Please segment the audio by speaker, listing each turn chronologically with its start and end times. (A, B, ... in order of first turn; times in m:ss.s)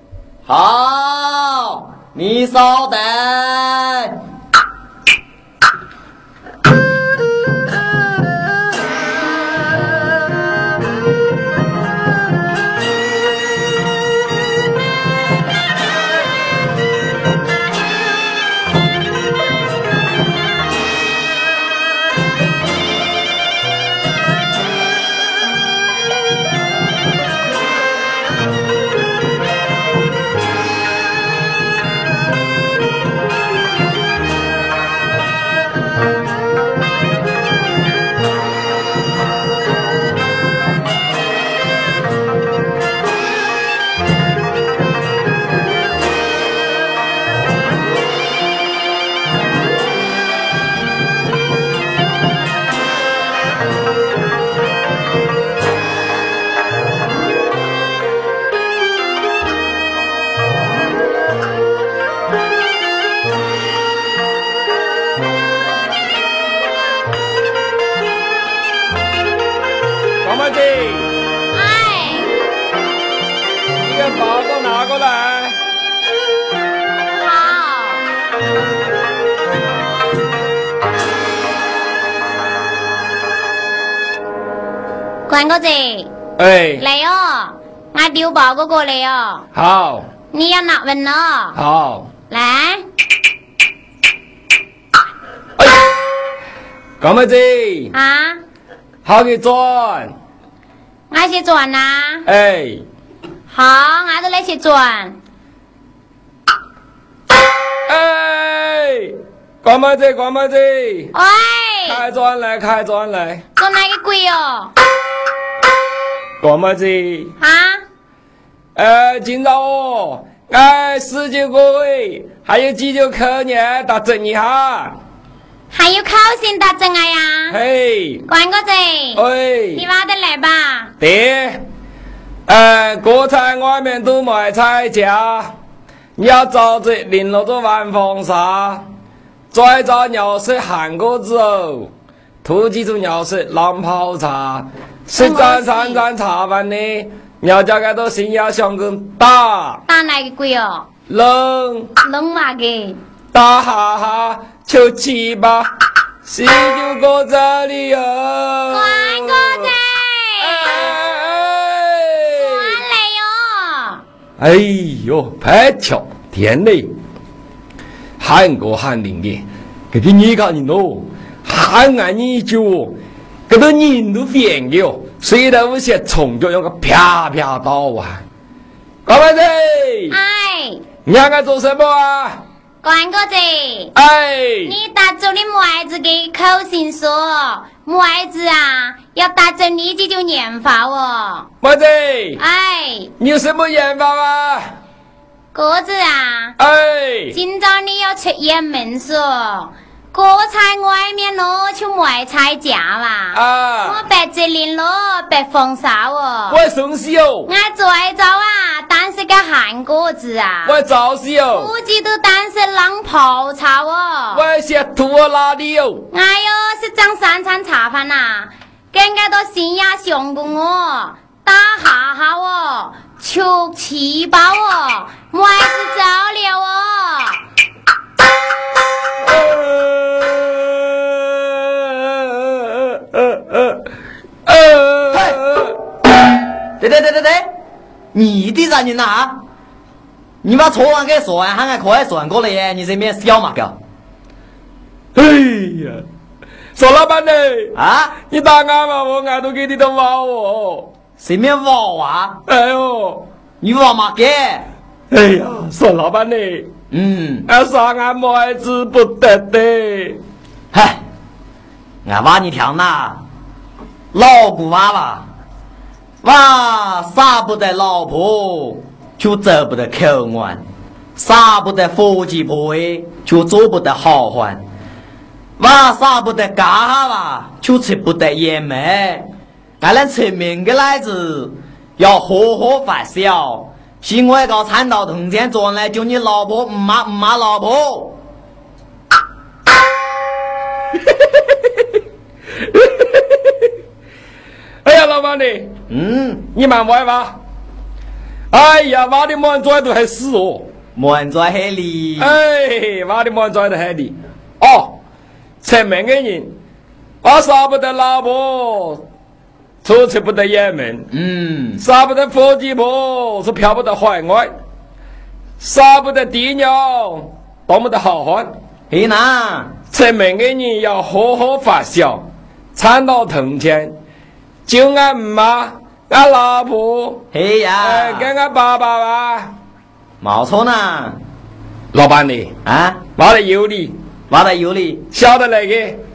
0:00.5-0:04.2 A
1:10.2-1:11.1 B
1:11.5-1:12.3 C
1:13.8-1:15.6 B
1:17.2-1:18.0 C
1:25.3-1:26.1 C
1:26.4-1:26.8 B
1:26.8-1:29.4 C
1:29.5-1:30.1 B
1:30.3-1:31.6 C
1:31.6-1:32.1 B
1:32.3-1:32.8 C
1:35.6-1:36.0 B
1:37.0-1:37.9 B
1:37.9-1:38.4 C
1:39.0-1:40.1 B
1:41.1-1:42.3 C
1:42.3-1:42.8 B
1:43.5-1:45.2 C
1:47.9-1:51.1 B
1:51.1-1:52.0 C
1:51.9-1:53.4 B
1:53.6-1:54.7 C
1:56.4-1:57.3 B
1:57.4-1:57.8 C
1:58.8-2:05.0 B
2:05.7-2:07.6 C
2:07.5-2:08.3 B
2:08.3-2:09.2 C
2:09.1-2:09.8 B
2:09.8-2:10.9 C
2:11.0-2:11.6 B
2:12.5-2:15.5 B
2:16.2-2:18.8 B
2:19.5-2:21.9 B
2:22.4-2:29.8 B
2:25.2-2:26.0 C
2:29.9-2:30.9 C
2:31.1-2:31.9 B
2:32.0-2:33.0 C
2:33.3-2:35.7 B
2:36.2-2:39.8 B
2:38.7-2:41.0 C
2:40.4-2:42.8 B
2:42.3-2:44.0 C
2:44.4-2:46.9 B
2:48.2-2:58.2 B
2:59.1-3:00.2 B
3:00.1-3:00.8 C
3:01.1-3:02.4 B
3:02.8-3:03.9 C
3:04.0-3:04.8 B
3:04.6-3:11.5 C
3:11.6-3:12.4 B
3:12.4-3:13.1 C
3:13.2-3:14.7 B
3:15.5-3:16.6 C
3:16.6-3:17.4 B
3:17.3-3:26.6 C
3:23.3-3:24.0 B
3:26.5-3:27.5 B
3:27.5-3:30.8 C
3:30.6-3:31.7 B
3:31.5-3:34.4 C
3:34.3-3:36.1 B
3:36.1-3:47.4 C
3:49.2-3:53.8 B
3:54.4-3:55.8 B
3:55.1-3:55.4 A
3:56.8-3:57.5 A
3:58.1-3:59.4 A
4:00.4-4:03.8 A
4:05.1-4:06.0 B
4:06.8-4:10.9 B
4:07.8-4:08.1 A
4:11.2-4:12.4 A
4:12.5-4:13.2 B
4:13.6-4:14.7 A
4:15.1-4:16.7 B
4:16.9-4:17.5 A
4:17.5-4:20.2 B
4:20.7-4:21.0 A
4:22.0-4:23.2 A
4:24.1-4:25.2 A
4:26.2-4:30.6 A
4:31.2-4:34.6 A
4:35.6-4:39.3 A
4:39.8-4:48.2 A
4:52.6-4:53.7 B
4:54.8-4:55.8 B
4:55.9-4:56.4 A
4:56.5-4:57.4 B
4:58.5-5:00.7 B
5:01.0-5:02.4 A
5:02.2-5:05.0 B
5:05.6-5:06.5 B
5:07.2-5:09.0 B
5:09.8-5:11.1 B
5:11.1-5:11.8 A
5:11.8-5:14.5 B
5:15.6-5:18.5 B
5:18.9-5:19.7 A
5:19.9-5:24.0 B
5:24.7-5:27.2 B
5:27.3-5:28.3 A
5:27.8-5:29.5 B
5:30.2-5:31.2 A
5:31.9-5:32.6 B
5:32.6-5:33.0 A
5:33.2-5:34.0 B
5:34.3-5:35.0 A
5:35.1-5:36.0 B